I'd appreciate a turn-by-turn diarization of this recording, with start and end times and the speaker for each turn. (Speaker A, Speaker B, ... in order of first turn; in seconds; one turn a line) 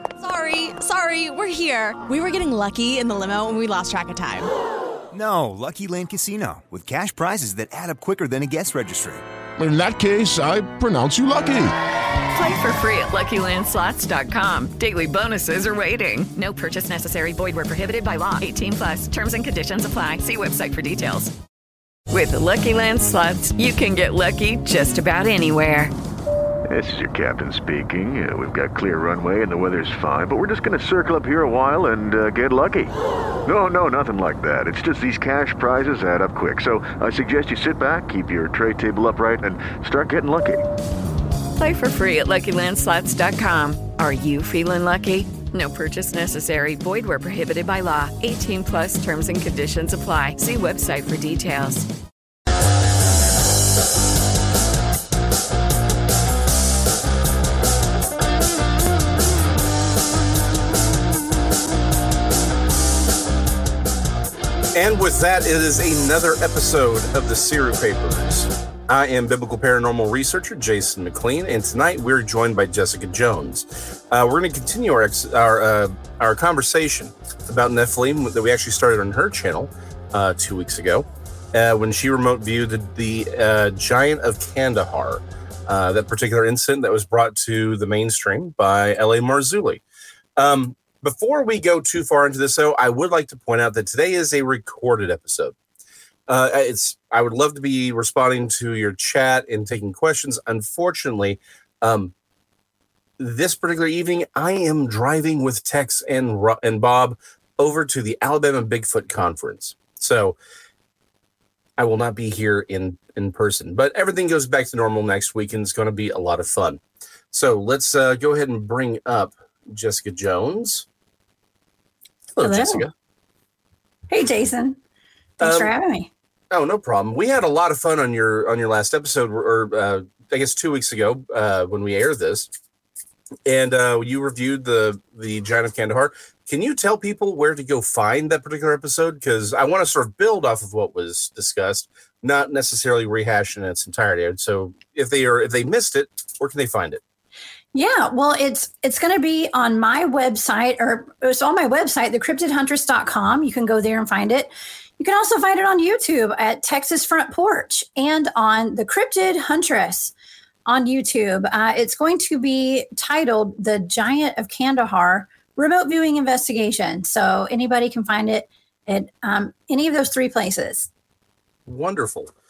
Speaker A: 0.2-4.5
Speaker B: 5.1-9.2
Speaker C: 9.6-11.7
Speaker D: 12.3-21.3
Speaker D: 22.1-25.9
Speaker E: 26.7-32.9
Speaker E: 33.5-40.6
Speaker D: 41.6-51.8
Speaker F: 64.7-89.8
Speaker F: 90.3-95.5
Speaker F: 96.3-102.1
Speaker F: 103.2-110.4
Speaker F: 111.8-120.8
Speaker F: 122.3-122.9
Speaker G: 122.4-122.8
Speaker G: 124.1-124.8
Speaker F: 125.4-125.7
Speaker G: 125.4-126.1
Speaker F: 126.5-132.5
Speaker F: 133.4-147.0
Speaker G: 147.7-160.1
Speaker G: 160.7-170.9
Speaker F: 171.7-172.3